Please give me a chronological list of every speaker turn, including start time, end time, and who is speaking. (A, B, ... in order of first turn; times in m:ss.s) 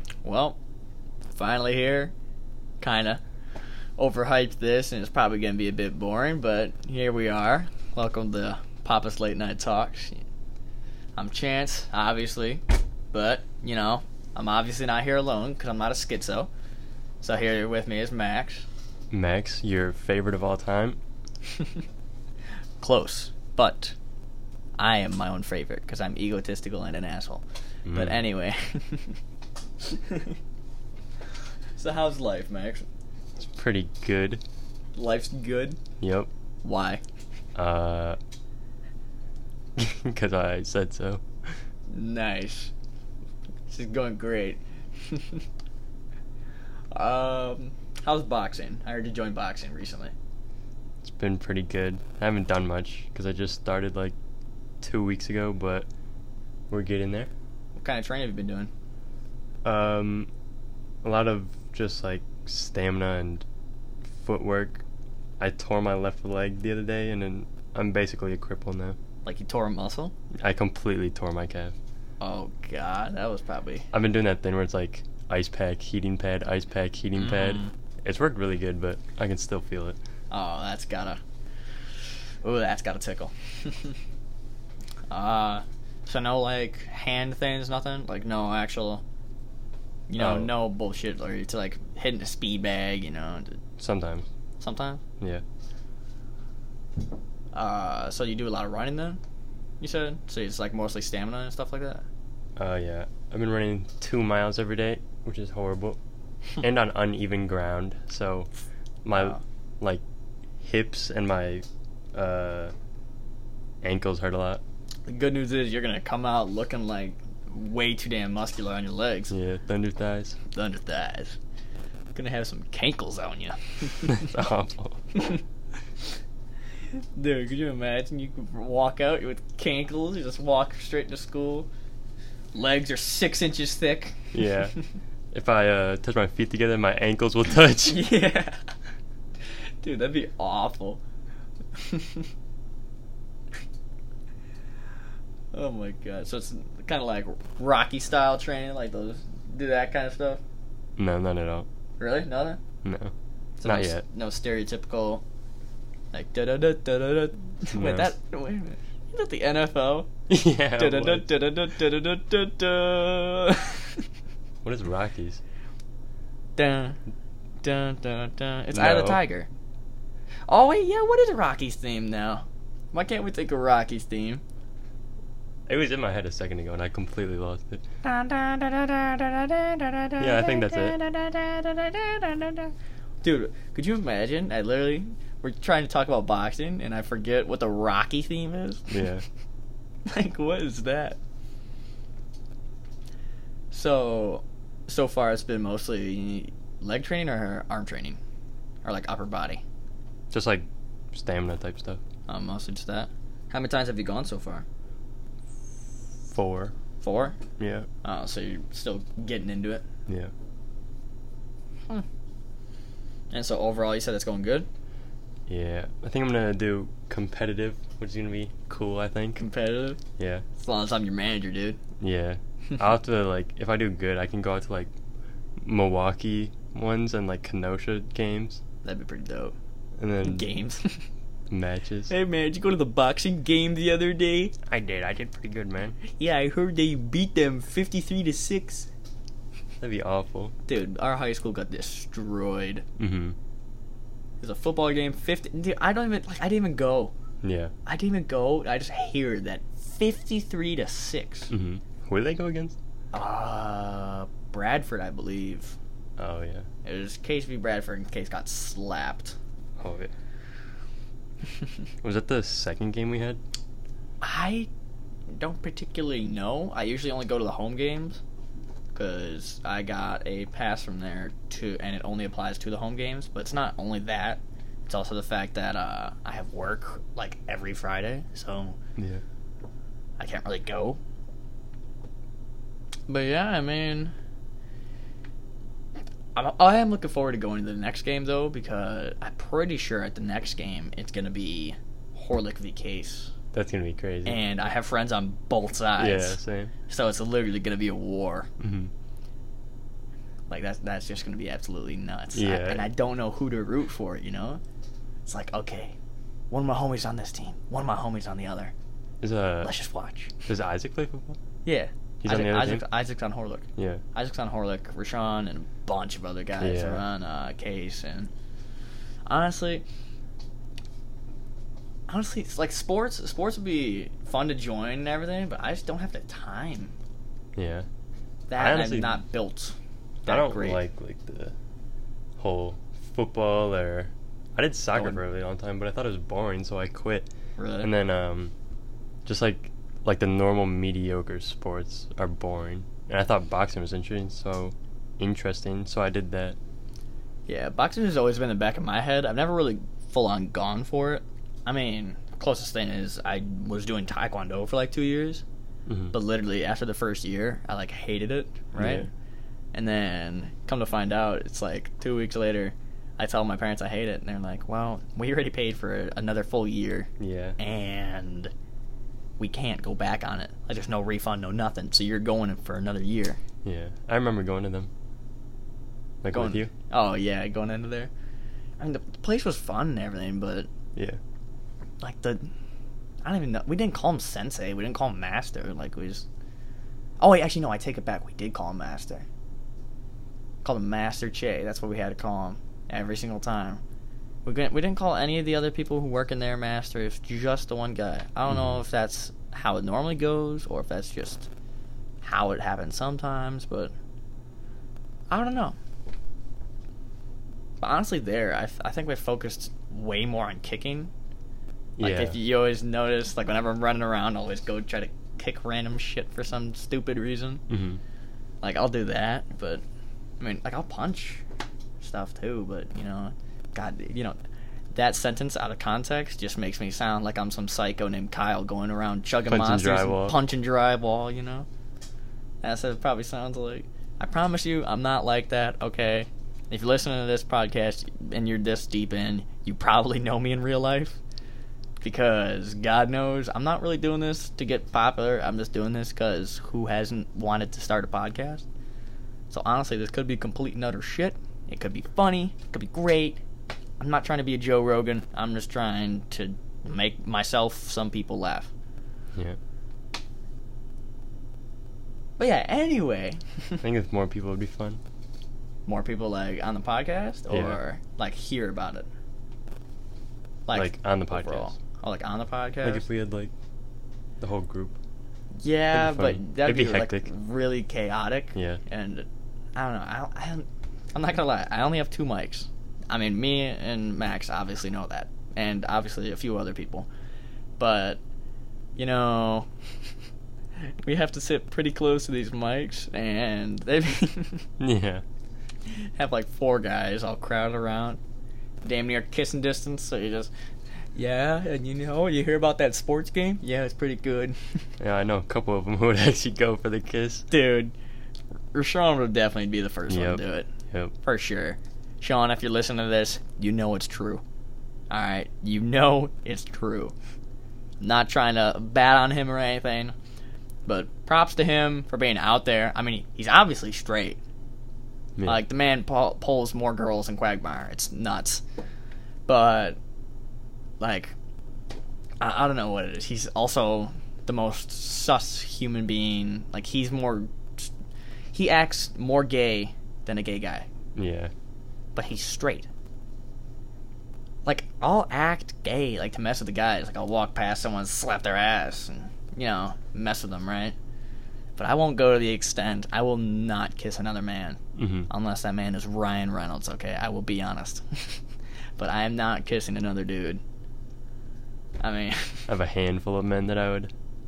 0:00.2-0:00.6 A
0:01.3-0:02.1 A
0:02.8-0:03.2 A
0:04.0-0:10.2 A
0:11.2-0:16.5 A
0:17.2-0:18.6 A
0:19.1-0:21.0 B
0:21.5-0:21.8 A
0:22.8-0:23.9 A
0:24.8-0:29.2 A
0:27.8-0:28.2 B
0:29.8-0:30.4 A
0:31.8-0:32.8 A
0:33.4-0:34.4 B
0:35.0-0:35.8 A
0:36.0-0:36.3 B
0:36.6-0:37.0 A
0:37.5-0:38.2 B
0:39.8-0:41.5 B
0:41.9-0:42.7 A
0:43.7-0:45.4 A
0:46.9-0:50.1 A
0:51.0-0:54.2 B
0:54.8-0:55.9 B
0:56.7-0:57.3 B
0:57.8-0:58.7 A
0:59.6-1:00.3 B
1:01.0-1:03.4 B
1:04.1-1:04.8 B
1:05.4-1:09.0 B
1:09.2-1:10.1 A
1:10.4-1:11.7 B
1:12.2-1:13.9 A
1:13.9-1:20.0 B
1:17.2-1:17.7 A
1:20.3-1:21.2 A
1:22.4-1:24.0 A
1:25.1-1:29.0 A
1:30.1-1:33.6 A
1:30.2-1:30.6 B
1:33.8-1:34.2 B
1:34.6-1:35.0 A
1:37.5-1:39.2 A
1:39.8-1:42.0 A
1:42.6-1:46.0 B
1:46.6-1:48.5 B
1:49.0-1:50.0 B
1:49.1-1:49.4 A
1:50.6-1:52.7 B
1:53.8-1:54.6 B
1:55.1-1:59.3 A
1:59.3-2:00.4 B
2:00.5-2:01.4 A
2:02.1-2:04.3 A
2:04.0-2:05.0 B
2:05.1-2:05.4 A
2:06.9-2:11.7 A
2:12.5-2:14.8 A
2:14.3-2:14.7 B
2:15.3-2:18.1 B
2:17.9-2:18.6 A
2:19.8-2:21.0 A
2:21.7-2:22.3 A
2:25.5-2:30.4 A
2:31.0-2:31.7 B
2:32.0-2:32.6 A
2:32.8-2:33.1 B
2:33.6-2:35.2 A
2:33.6-2:34.0 B
2:36.1-2:40.1 A
2:37.7-2:38.1 B
2:40.3-2:41.2 B
2:40.8-2:44.0 A
2:44.6-2:45.4 B
2:46.6-2:47.0 A
2:47.6-2:49.5 A
2:48.7-2:49.2 B
2:50.5-2:54.4 A
2:55.7-2:57.8 B
2:58.0-3:08.9 A
3:00.2-3:01.0 B
3:08.9-3:09.2 B
3:10.0-3:11.2 A
3:13.7-3:18.2 A
3:18.8-3:19.6 A
3:20.3-3:22.0 B
3:22.3-3:24.6 A
3:26.3-3:26.7 B
3:27.0-3:27.4 A
3:27.6-3:27.9 B
3:28.0-3:29.8 A
3:30.1-3:30.3 B
3:33.3-3:34.7 A
3:35.5-3:39.4 B
3:39.4-3:40.0 A
3:40.2-3:40.4 B
3:40.6-3:41.8 A
3:42.0-3:44.9 B
3:45.6-3:48.6 B
3:48.8-3:49.5 A
3:50.0-3:50.5 B
3:50.2-3:51.1 A
3:51.5-3:52.1 B
3:52.1-3:54.5 A
3:54.7-3:56.0 B
3:56.1-3:58.9 A
3:59.8-4:00.5 B
4:00.7-4:02.8 A
4:03.0-4:03.4 B
4:04.4-4:07.1 A
4:07.4-4:07.7 B
4:07.8-4:11.5 A
4:11.5-4:12.8 B
4:13.1-4:15.8 A
4:16.2-4:16.6 B
4:16.8-4:19.4 A
4:19.8-4:20.1 B
4:22.0-4:23.4 B
4:24.2-4:24.7 A
4:25.3-4:28.2 A
4:28.9-4:38.8 A
4:39.0-4:39.2 B
4:40.2-4:41.0 A
4:43.1-4:44.1 A
4:46.3-4:53.3 A
4:53.5-4:54.4 B
4:54.2-4:58.5 A
4:56.0-4:56.7 B
4:58.6-4:58.9 B
5:00.5-5:04.6 A
5:02.3-5:02.9 B
5:05.2-5:05.9 A
5:06.5-5:08.7 A
5:09.2-5:09.7 B
5:09.6-5:10.3 A
5:10.4-5:11.4 B
5:11.6-5:18.3 A
5:12.2-5:12.8 B
5:13.8-5:14.0 B
5:16.6-5:17.0 B
5:19.3-5:19.8 A
5:22.1-5:26.9 A
5:27.6-5:27.9 B
5:28.5-5:30.8 A
5:28.6-5:29.2 B
5:30.2-5:31.5 B
5:32.4-5:37.3 B
5:34.9-5:35.2 A
5:37.6-5:37.9 A
5:37.8-5:38.5 B
5:39.2-5:46.6 B
5:47.5-5:55.4 A
5:55.9-5:56.1 B
5:56.1-5:59.1 A
5:58.8-5:59.1 B
5:59.7-6:08.5 A
6:07.2-6:07.6 B
6:09.4-6:13.4 A
6:13.6-6:14.9 B
6:16.2-6:16.7 B
6:16.3-6:18.1 A
6:18.8-6:20.7 A
6:22.0-6:22.5 A
6:23.2-6:26.2 A
6:27.2-6:29.2 A
6:30.6-6:33.8 A
6:34.4-6:41.5 A
6:38.5-6:38.8 B
6:42.2-6:43.9 A
6:45.3-6:45.8 A
6:47.8-6:51.1 A
6:52.0-6:52.4 B
6:52.0-6:57.6 A
6:57.7-6:58.0 B
6:58.6-6:59.8 A
7:00.4-7:01.4 A
7:02.0-7:04.4 A
7:04.9-7:11.6 A
7:09.4-7:10.4 B
7:12.6-7:21.2 A
7:22.0-7:28.6 A
7:29.5-7:33.4 A
7:34.0-7:38.7 A
7:42.4-7:43.8 A
7:43.8-7:45.0 B
7:45.8-7:49.1 A
7:47.5-7:47.8 B
7:50.7-7:53.0 A
7:50.7-7:51.7 B
7:52.8-7:53.5 B
7:54.4-7:55.0 B
7:55.6-8:07.1 A
7:55.9-7:57.3 B
7:58.5-7:58.8 B
8:07.8-8:08.2 A
8:09.0-8:09.7 A
8:11.0-8:14.6 A
8:14.8-8:15.2 B
8:15.9-8:18.2 A
8:18.8-8:20.5 A
8:21.2-8:24.8 A
8:25.0-8:27.5 B
8:27.5-8:27.9 A
8:28.7-8:30.7 A
8:30.1-8:31.1 B
8:31.2-8:34.4 A
8:35.1-8:37.1 A
8:38.0-8:40.1 A
8:40.8-8:44.4 A
8:45.4-8:48.6 A
8:49.5-8:50.0 A
8:51.0-8:51.3 A
8:52.4-8:57.9 A
8:58.5-9:00.9 A
9:01.2-9:01.5 B
9:02.1-9:02.9 A
9:04.6-9:11.0 A
9:11.8-9:18.4 A
9:15.0-9:15.3 B
9:19.0-9:20.6 A
9:22.0-9:22.7 A
9:22.7-9:24.1 B